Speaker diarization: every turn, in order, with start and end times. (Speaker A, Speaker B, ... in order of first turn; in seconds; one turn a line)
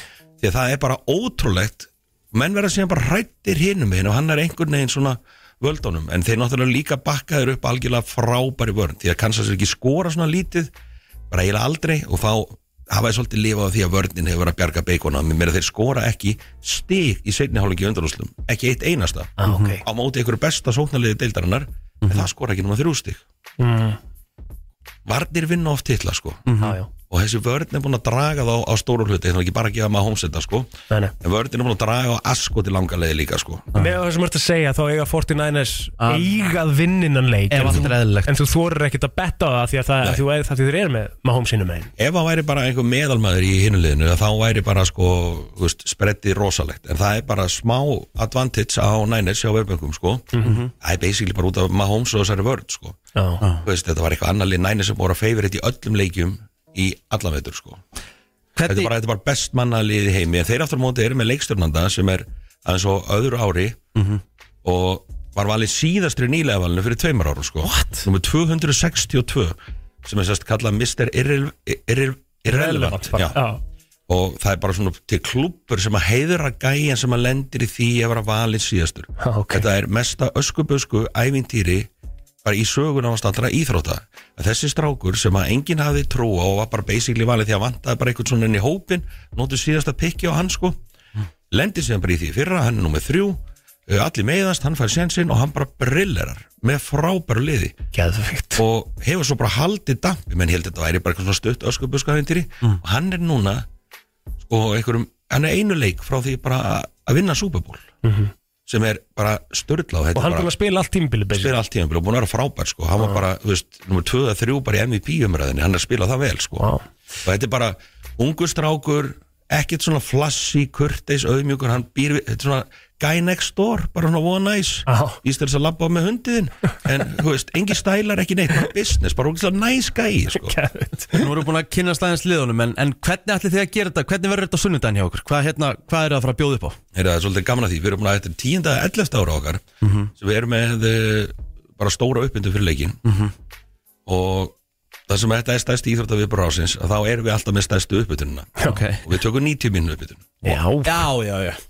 Speaker A: 0.4-10.7
Speaker A: 11.3-23.2
Speaker B: 19.4-19.8
Speaker C: 19.4-19.8
Speaker C: 22.0-22.3
Speaker B: 23.6-24.0
Speaker A: 25.1-26.4
Speaker C: 26.5-26.8
Speaker B: 26.6-26.9
Speaker A: 27.0-33.7
Speaker B: 33.8-41.9
Speaker C: 36.0-36.3
Speaker C: 37.5-38.3
Speaker A: 42.0-53.0
Speaker B: 50.3-50.6
Speaker C: 50.4-50.7
Speaker B: 53.2-53.4
Speaker A: 53.6-57.8
Speaker C: 58.6-58.9
Speaker A: 58.6-63.8
Speaker C: 64.0-64.2
Speaker A: 64.6-73.4
Speaker B: 67.6-68.0
Speaker B: 72.5-73.6
Speaker A: 74.1-81.9
Speaker B: 79.2-79.7
Speaker A: 82.4-90.8
Speaker A: 91.5-97.8
Speaker B: 97.9-98.6
Speaker A: 98.6-103.7
Speaker A: 104.5-107.9
Speaker B: 108.0-108.3
Speaker A: 108.7-110.5
Speaker B: 110.2-111.5
Speaker A: 111.3-116.7
Speaker B: 113.0-113.2
Speaker A: 117.2-130.6
Speaker B: 124.9-125.2
Speaker B: 130.3-131.3
Speaker C: 131.1-136.8
Speaker A: 136.9-143.0
Speaker C: 139.8-140.1
Speaker C: 143.1-143.3
Speaker A: 144.1-144.6
Speaker A: 145.1-150.4
Speaker C: 148.7-149.0
Speaker B: 150.4-151.1
Speaker C: 150.5-151.6